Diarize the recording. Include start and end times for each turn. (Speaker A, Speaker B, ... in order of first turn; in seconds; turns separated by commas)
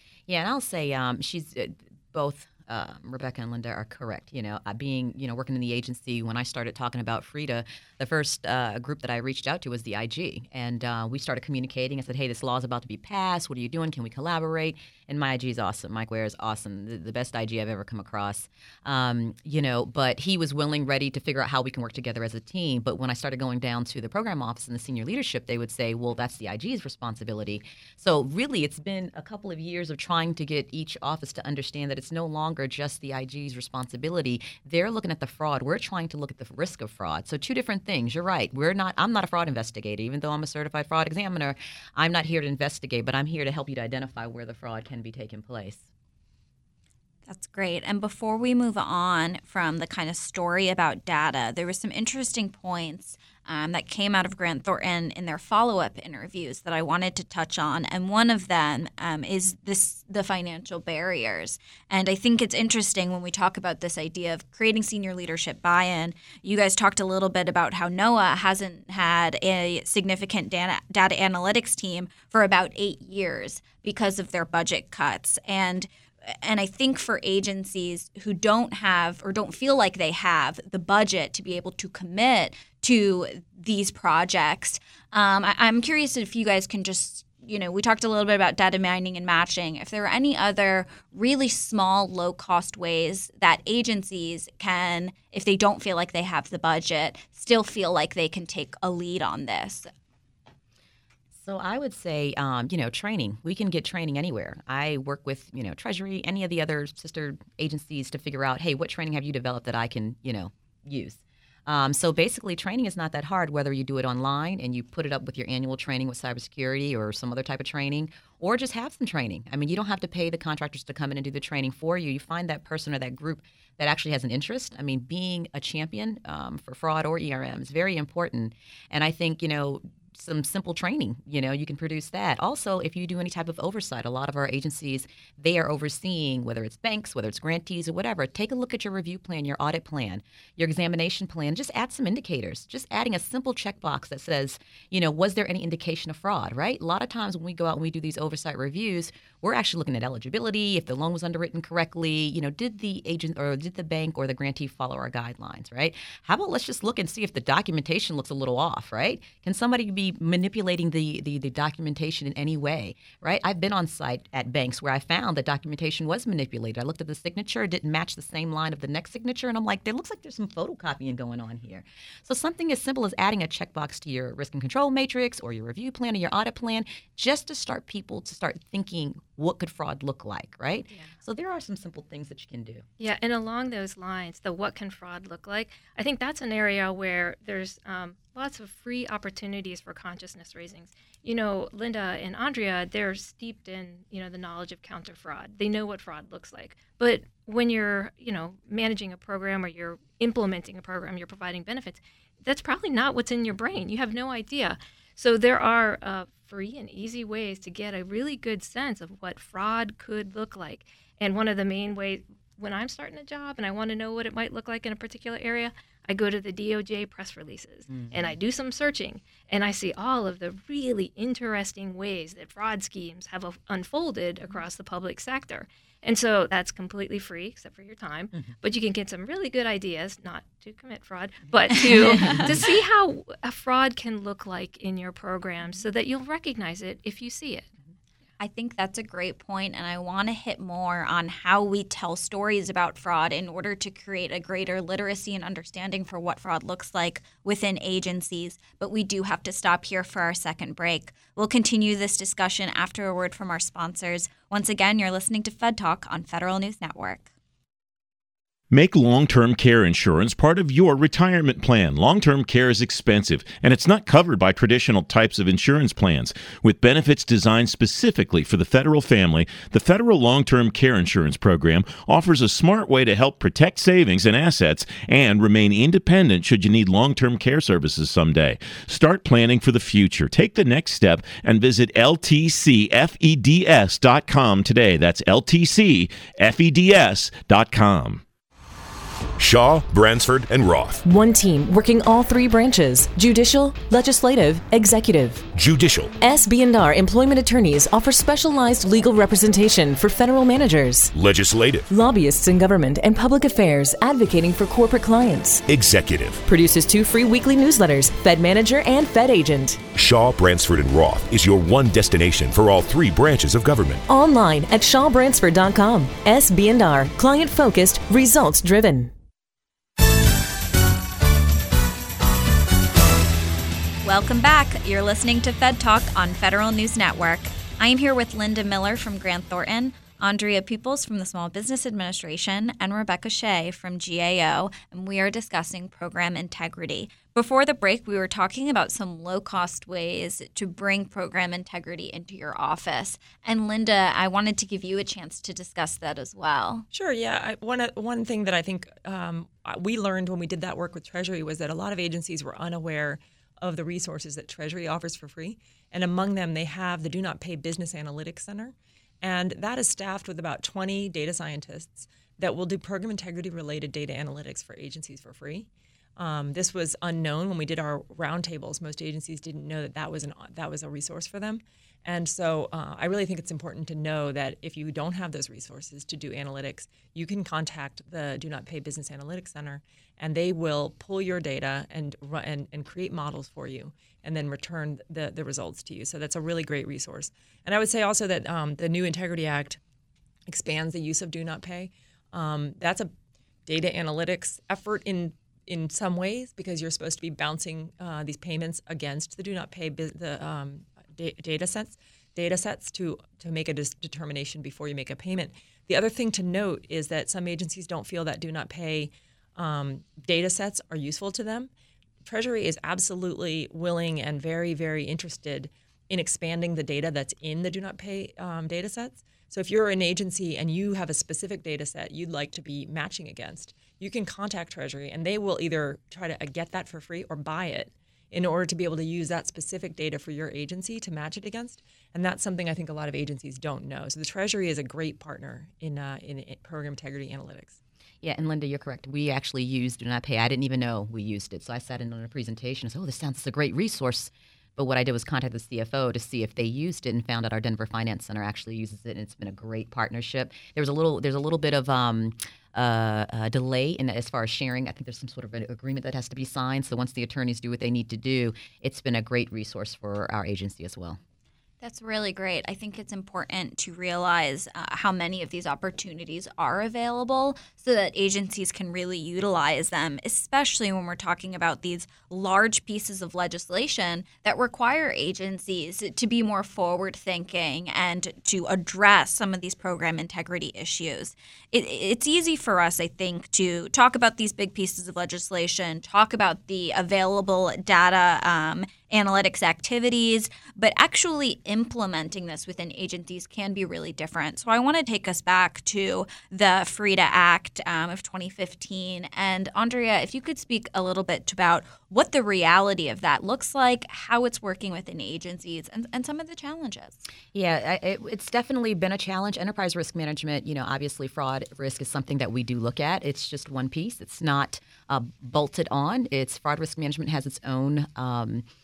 Speaker A: 0.3-45.9, Speaker B: 47.3-99.9, Speaker A: 101.3-182.8, Speaker C: 183.0-237.7, Speaker A: 217.9-218.3, Speaker B: 238.4-257.3, Speaker D: 258.7-288.2, Speaker E: 289.4-291.0, Speaker F: 291.0-295.5, Speaker E: 295.5-296.1, Speaker F: 296.2-301.1, Speaker E: 301.1-301.9, Speaker F: 301.9-305.6, Speaker E: 305.7-306.4, Speaker F: 306.5-309.8, Speaker E: 309.9-314.0, Speaker F: 314.1-319.1, Speaker B: 324.0-346.9, Speaker G: 346.9-389.8, Speaker G: 390.5-393.1, Speaker G: 393.7-411.7, Speaker G: 412.2-437.8, Speaker A: 438.2-461.2, Speaker B: 461.8-507.3, Speaker A: 507.5-518.6